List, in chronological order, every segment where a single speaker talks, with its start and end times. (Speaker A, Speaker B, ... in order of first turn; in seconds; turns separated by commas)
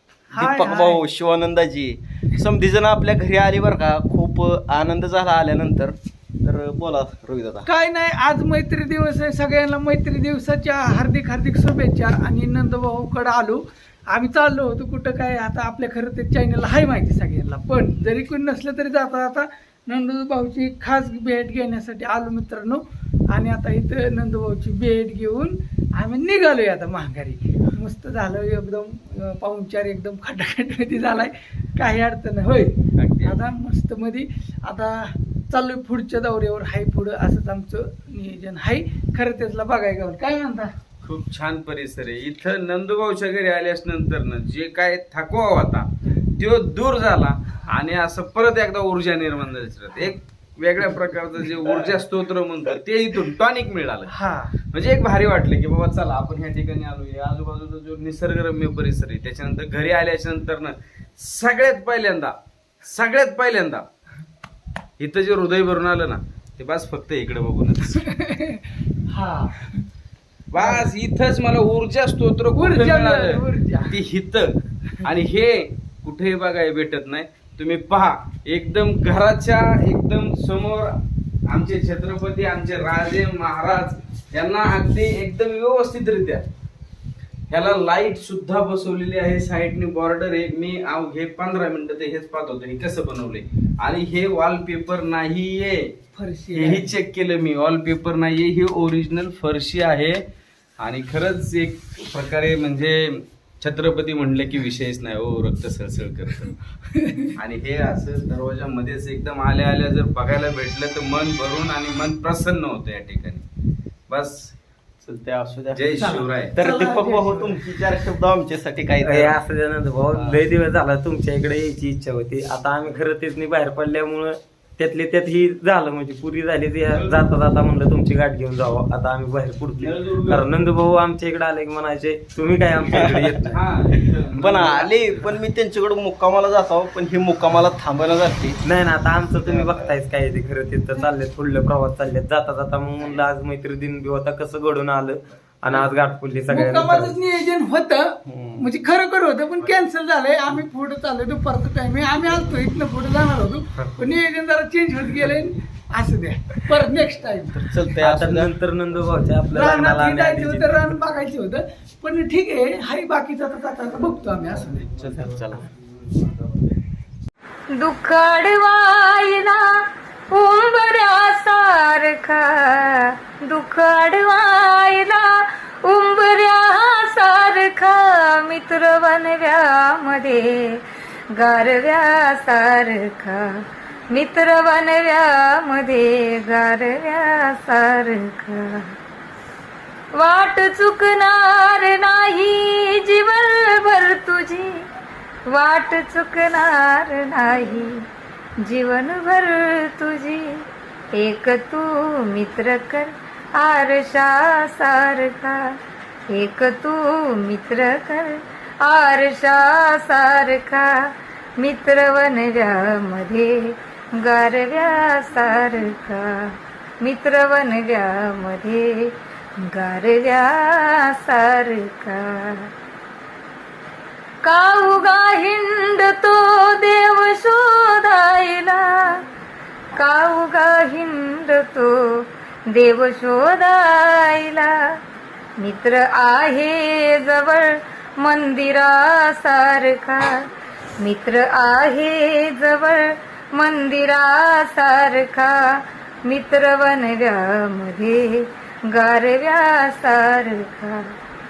Speaker A: 0.3-1.0, Speaker B: 0.4-7.6, Speaker A: 7.7-40.7, Speaker C: 33.0-33.4, Speaker C: 41.0-54.1, Speaker A: 54.1-54.5, Speaker C: 54.7-63.9, Speaker C: 65.0-68.0, Speaker A: 68.0-69.8, Speaker C: 70.5-80.9, Speaker A: 70.6-70.9, Speaker A: 72.5-74.0, Speaker C: 81.5-86.4, Speaker C: 87.5-95.9, Speaker A: 96.2-96.9, Speaker C: 96.5-100.2, Speaker C: 100.8-106.5, Speaker A: 106.9-107.3, Speaker C: 107.4-113.4, Speaker C: 114.1-114.5, Speaker B: 115.0-119.4, Speaker C: 115.7-116.5, Speaker A: 116.0-117.6, Speaker D: 119.0-133.6, Speaker B: 120.1-120.4, Speaker C: 126.9-127.2, Speaker C: 129.8-130.5, Speaker B: 132.9-133.3, Speaker C: 133.5-135.4, Speaker B: 134.3-138.6, Speaker D: 138.6-147.2, Speaker B: 139.4-139.9, Speaker A: 146.5-157.7, Speaker B: 148.3-148.7, Speaker B: 157.5-158.5, Speaker D: 158.0-161.0, Speaker A: 159.5-164.9, Speaker B: 164.8-165.7, Speaker E: 167.8-188.9, Speaker E: 190.1-194.8, Speaker E: 195.5-198.0, Speaker E: 198.6-205.7, Speaker E: 206.3-222.7, Speaker E: 224.4-229.2, Speaker E: 229.9-234.9, Speaker E: 235.6-240.5, Speaker E: 241.0-251.1